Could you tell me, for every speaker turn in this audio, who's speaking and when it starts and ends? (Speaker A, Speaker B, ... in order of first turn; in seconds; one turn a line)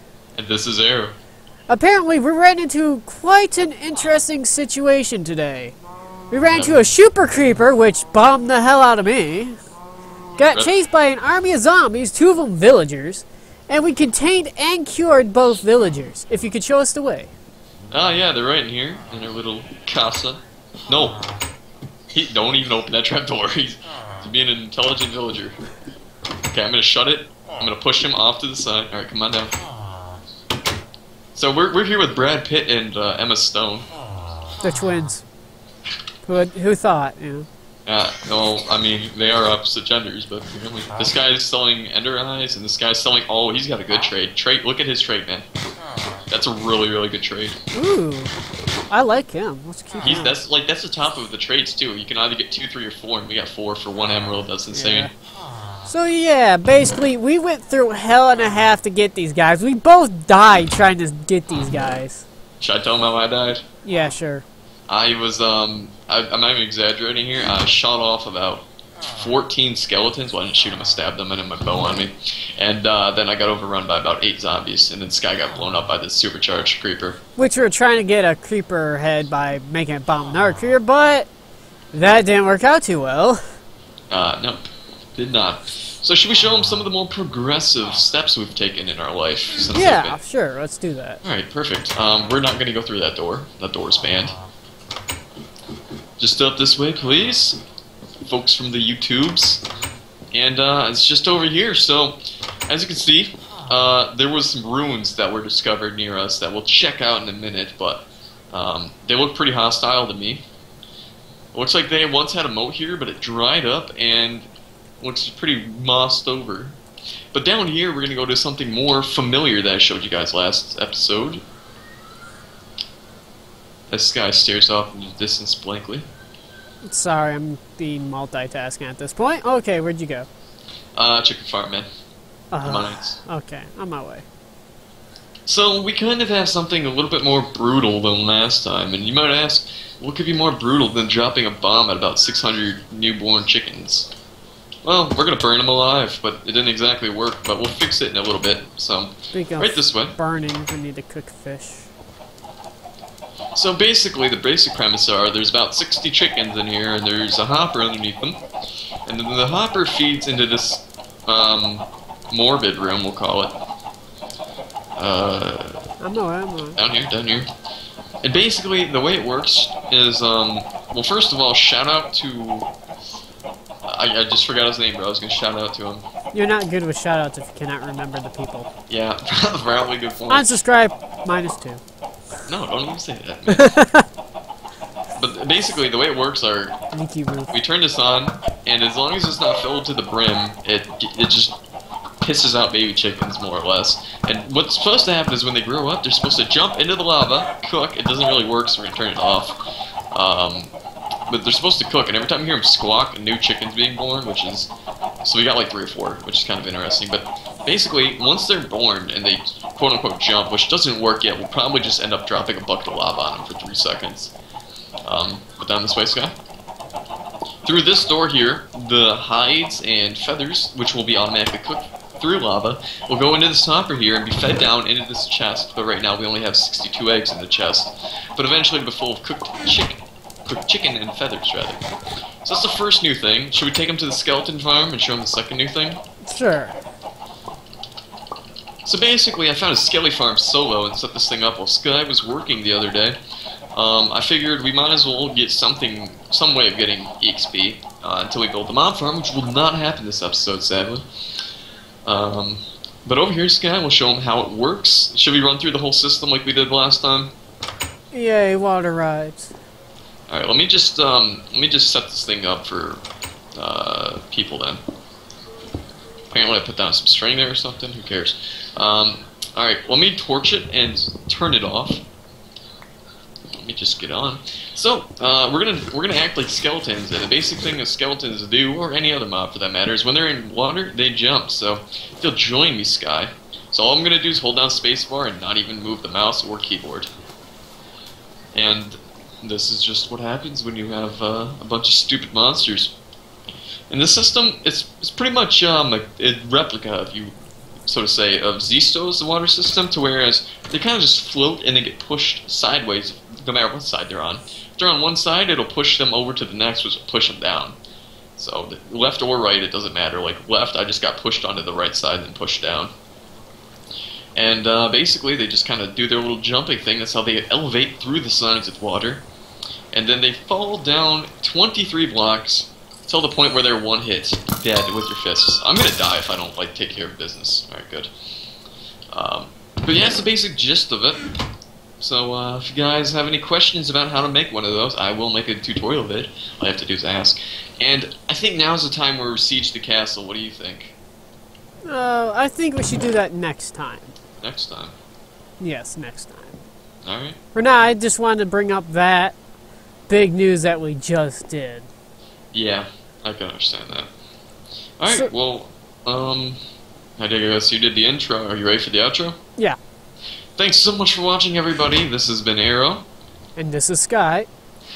Speaker A: 0.3-1.1
Speaker B: 1.7-5.8
Speaker B: 6.3-9.6
Speaker A: 6.5-6.9
Speaker B: 10.4-17.3
Speaker A: 17.9-21.2
Speaker A: 22.1-25.6
Speaker A: 26.5-29.5
Speaker A: 31.3-33.9
Speaker B: 34.6-35.2
Speaker B: 36.2-37.5
Speaker A: 37.9-45.5
Speaker A: 46.3-47.6
Speaker B: 47.7-48.3
Speaker B: 48.9-50.3
Speaker A: 50.0-55.1
Speaker B: 54.7-55.1
Speaker B: 55.8-62.2
Speaker A: 62.6-63.6
Speaker B: 63.8-64.4
Speaker A: 64.9-77.2
Speaker B: 77.4-81.3
Speaker B: 81.9-83.4
Speaker A: 84.1-90.2
Speaker B: 89.7-91.2
Speaker A: 91.2-94.3
Speaker A: 96.2-97.6
Speaker A: 98.2-99.6
Speaker A: 100.3-110.4
Speaker A: 111.5-114.5
Speaker A: 115.0-116.8
Speaker A: 117.3-121.4
Speaker A: 123.9-126.1
Speaker B: 126.9-130.3
Speaker A: 131.0-131.8
Speaker B: 132.5-134.2
Speaker A: 132.6-133.2
Speaker A: 135.4-144.1
Speaker A: 144.8-150.1
Speaker B: 149.3-151.9
Speaker A: 153.6-158.4
Speaker A: 159.1-163.5
Speaker A: 165.0-165.9
Speaker B: 166.0-166.8
Speaker A: 166.8-167.5
Speaker A: 168.2-172.7
Speaker A: 173.9-176.0
Speaker B: 176.3-178.7
Speaker A: 178.9-180.6
Speaker B: 180.3-181.8
Speaker A: 182.5-183.8
Speaker B: 183.5-184.1
Speaker A: 185.2-186.8
Speaker B: 186.9-187.5
Speaker A: 187.5-191.6
Speaker A: 192.2-199.6
Speaker A: 200.1-200.7
Speaker A: 201.3-204.7
Speaker A: 205.2-214.3
Speaker A: 215.1-216.3
Speaker A: 217.6-231.8
Speaker A: 232.4-236.0
Speaker B: 236.2-236.8
Speaker A: 238.8-243.2
Speaker A: 243.7-251.0
Speaker A: 252.0-257.3
Speaker B: 258.1-259.5
Speaker A: 260.3-263.0
Speaker A: 263.6-264.8
Speaker A: 266.3-272.0
Speaker A: 273.5-287.1
Speaker A: 288.5-292.9
Speaker A: 293.9-297.3
Speaker A: 297.9-307.8
Speaker A: 308.4-312.9
Speaker A: 314.4-319.2
Speaker A: 319.9-328.1
Speaker A: 329.1-331.2
Speaker A: 332.0-340.9
Speaker B: 341.8-344.1
Speaker A: 344.4-344.9
Speaker B: 345.6-346.6
Speaker A: 347.0-347.4
Speaker B: 347.5-349.3
Speaker B: 350.1-351.9
Speaker A: 352.5-354.1
Speaker A: 355.0-356.6
Speaker A: 357.2-359.4
Speaker A: 360.6-363.1
Speaker B: 363.6-364.5